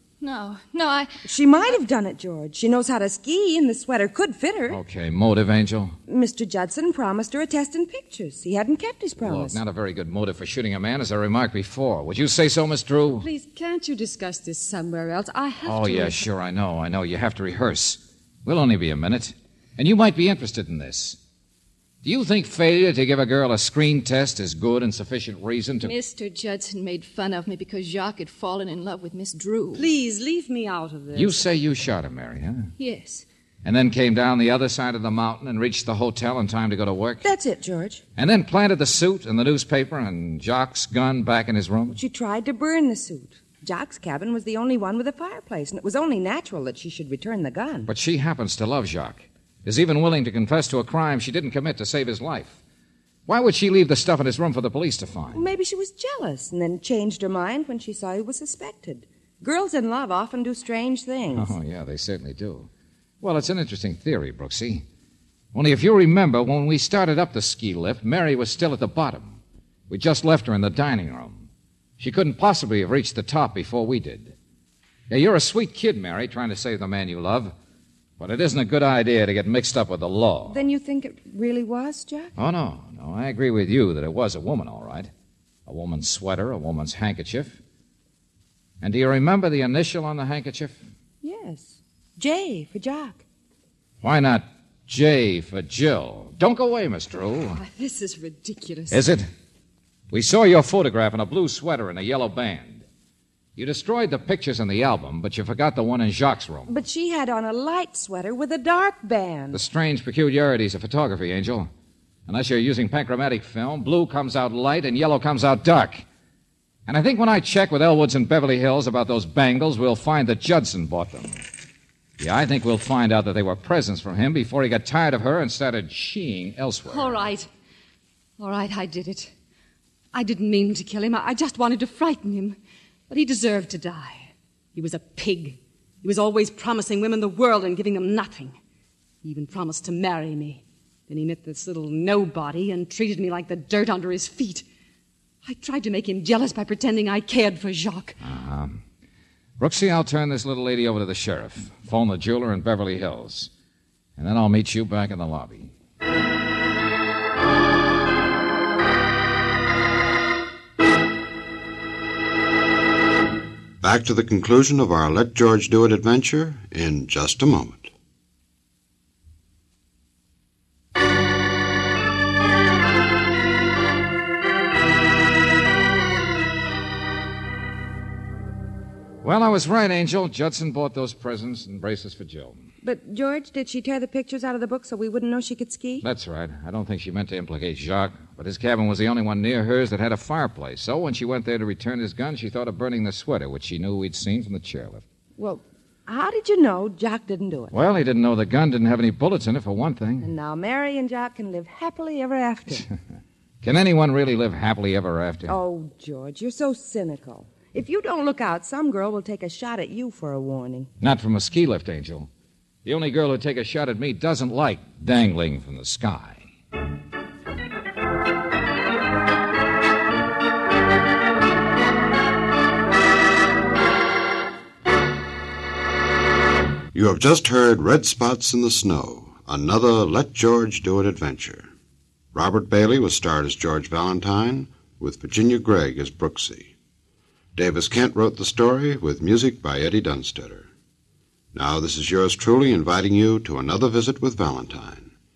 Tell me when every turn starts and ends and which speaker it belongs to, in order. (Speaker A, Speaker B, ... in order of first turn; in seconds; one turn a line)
Speaker A: 0.2-1.1
Speaker B: 1.2-4.8
Speaker C: 4.7-6.0
Speaker B: 6.1-9.6
Speaker C: 9.2-13.3
Speaker D: 13.1-16.2
Speaker C: 15.6-21.2
Speaker C: 22.0-25.9
Speaker A: 25.8-29.9
Speaker D: 29.7-31.4
Speaker C: 31.1-32.7
Speaker A: 32.8-33.2
Speaker C: 33.6-37.3
Speaker B: 37.2-38.0
Speaker C: 38.1-42.0
Speaker B: 41.9-47.9
Speaker C: 47.9-52.6
Speaker C: 53.3-55.5
Speaker B: 55.3-61.5
Speaker C: 61.3-62.7
Speaker C: 63.2-64.8
Speaker C: 65.5-71.5
Speaker C: 72.0-74.3
Speaker C: 75.1-77.5
Speaker C: 78.2-80.6
Speaker B: 80.5-82.3
Speaker C: 82.4-85.1
Speaker C: 85.7-87.6
Speaker C: 88.8-90.8
Speaker B: 91.2-93.2
Speaker C: 94.0-97.6
Speaker D: 97.5-99.1
Speaker C: 98.9-99.3
Speaker C: 100.1-102.8
Speaker C: 103.5-106.7
Speaker B: 106.7-109.6
Speaker C: 109.5-111.7
Speaker C: 112.3-116.0
Speaker C: 116.9-121.4
Speaker C: 122.2-127.2
Speaker D: 126.8-127.5
Speaker D: 128.4-129.3
Speaker D: 130.1-132.6
Speaker D: 133.1-138.6
Speaker D: 139.2-144.6
Speaker D: 145.4-148.2
Speaker C: 148.2-148.8
Speaker C: 149.6-153.5
Speaker C: 154.2-155.7
Speaker E: 163.8-167.9
Speaker C: 179.2-182.6
Speaker B: 182.8-186.0
Speaker C: 186.0-195.0
Speaker B: 195.4-197.7
Speaker C: 197.7-200.3
Speaker B: 200.2-202.9
Speaker C: 203.6-205.6
Speaker B: 205.5-210.9
Speaker C: 211.0-212.3
Speaker C: 212.8-216.5
Speaker E: 226.9-231.7
Speaker E: 232.3-236.7
Speaker E: 237.6-240.7
Speaker E: 241.5-245.1